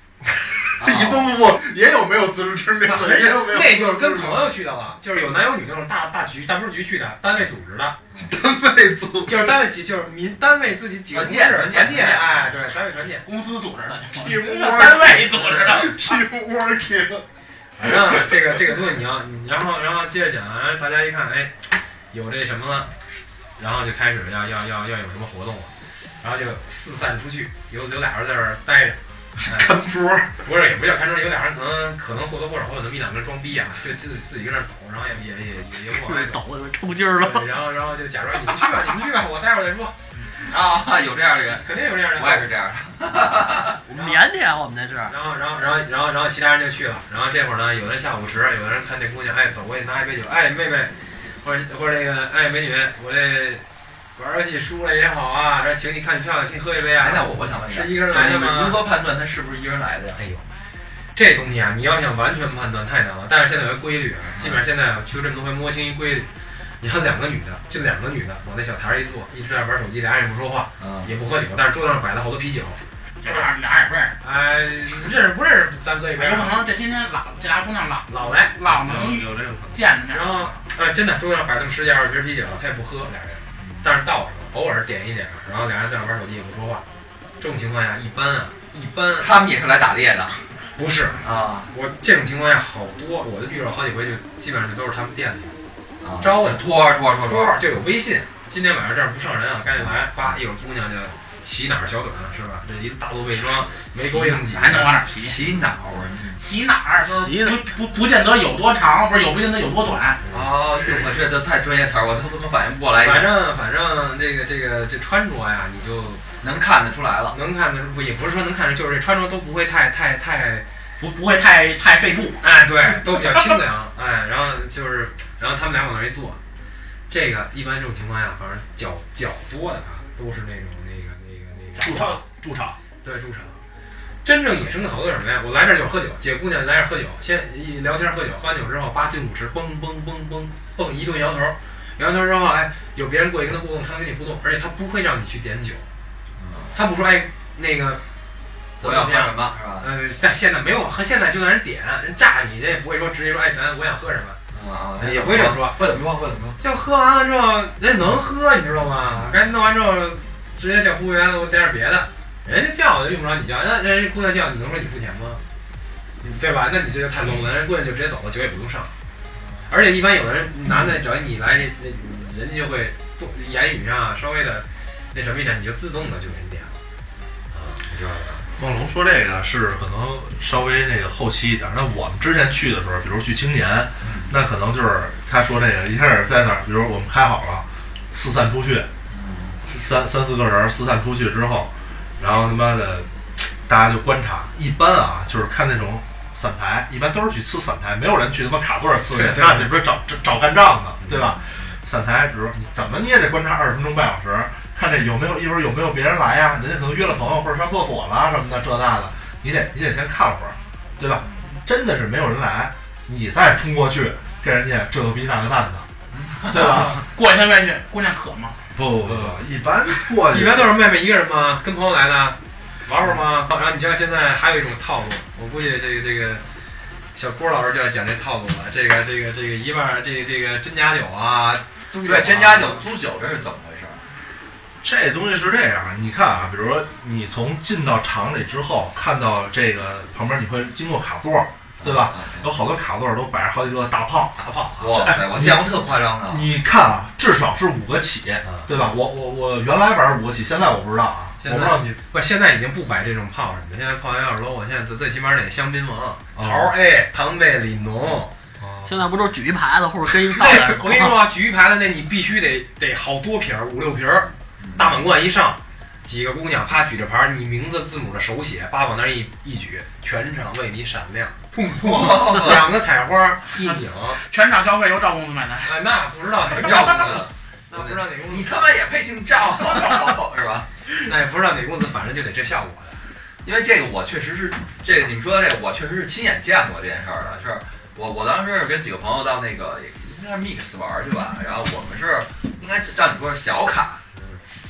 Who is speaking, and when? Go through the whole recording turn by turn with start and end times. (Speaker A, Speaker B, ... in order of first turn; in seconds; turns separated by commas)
Speaker A: 0.2-4.5, Speaker B: 0.8-1.4, Speaker C: 2.9-8.0, Speaker A: 8.3-9.6, Speaker C: 9.3-13.3, Speaker B: 11.1-12.5, Speaker D: 13.2-16.1, Speaker A: 14.2-17.3, Speaker C: 15.4-15.7, Speaker C: 17.8-21.6, Speaker A: 17.8-18.3, Speaker C: 22.1-22.9, Speaker C: 23.6-29.8, Speaker A: 29.4-30.3, Speaker C: 30.4-36.4, Speaker E: 35.9-37.5, Speaker C: 37.2-40.0, Speaker B: 40.4-43.8, Speaker C: 41.6-42.5, Speaker E: 43.9-45.1, Speaker C: 43.9-44.2, Speaker C: 45.1-53.6, Speaker C: 54.2-58.8, Speaker B: 57.0-60.2, Speaker C: 60.2-60.4, Speaker C: 61.1-66.3, Speaker B: 64.3-64.6, Speaker C: 66.8-73.5, Speaker B: 70.8-71.1, Speaker D: 73.2-74.2, Speaker C: 74.2-76.6, Speaker D: 76.2-80.5, Speaker C: 78.1-78.5, Speaker A: 78.6-79.9, Speaker C: 80.1-86.8, Speaker B: 83.6-83.8, Speaker C: 87.4-89.3, Speaker B: 89.2-90.5, Speaker C: 90.8-95.5, Speaker B: 91.2-91.7, Speaker B: 96.0-97.6, Speaker C: 96.2-96.6, Speaker C: 97.2-104.9, Speaker B: 99.8-100.3, Speaker D: 104.0-105.4, Speaker B: 105.1-106.4, Speaker D: 106.4-110.2, Speaker E: 107.0-107.6, Speaker B: 110.3-113.3, Speaker C: 113.0-116.2, Speaker B: 116.4-117.4, Speaker C: 117.3-120.7, Speaker D: 121.0-122.4, Speaker C: 122.4-126.4, Speaker C: 127.1-132.2, Speaker A: 131.8-132.8, Speaker C: 133.0-133.6, Speaker C: 134.2-145.9, Speaker B: 146.4-146.8, Speaker C: 146.7-148.0, Speaker C: 148.8-154.4, Speaker B: 148.8-149.9, Speaker B: 154.5-156.6, Speaker C: 155.0-155.8, Speaker C: 156.6-165.4, Speaker C: 166.2-168.9, Speaker C: 169.7-176.8, Speaker C: 177.5-178.5, Speaker A: 178.6-188.9, Speaker B: 184.0-184.3, Speaker B: 189.1-189.6, Speaker A: 189.7-215.9, Speaker C: 199.1-199.8, Speaker B: 216.1-216.9, Speaker D: 216.5-218.7, Speaker A: 218.8-220.7, Speaker C: 219.1-219.4, Speaker C: 220.3-226.4, Speaker C: 227.1-232.8, Speaker B: 232.1-234.0, Speaker A: 234.8-244.4, Speaker B: 241.8-242.5, Speaker C: 244.4-245.0, Speaker B: 244.8-246.5, Speaker A: 244.9-245.7, Speaker A: 246.3-252.0, Speaker C: 251.4-258.3, Speaker A: 256.4-256.7, Speaker A: 258.6-259.1, Speaker E: 258.9-261.1, Speaker C: 260.4-274.2, Speaker B: 264.6-265.0, Speaker B: 271.7-272.7, Speaker D: 273.5-275.8, Speaker C: 275.6-278.7, Speaker B: 276.5-280.7, Speaker C: 281.0-283.0, Speaker B: 283.4-294.0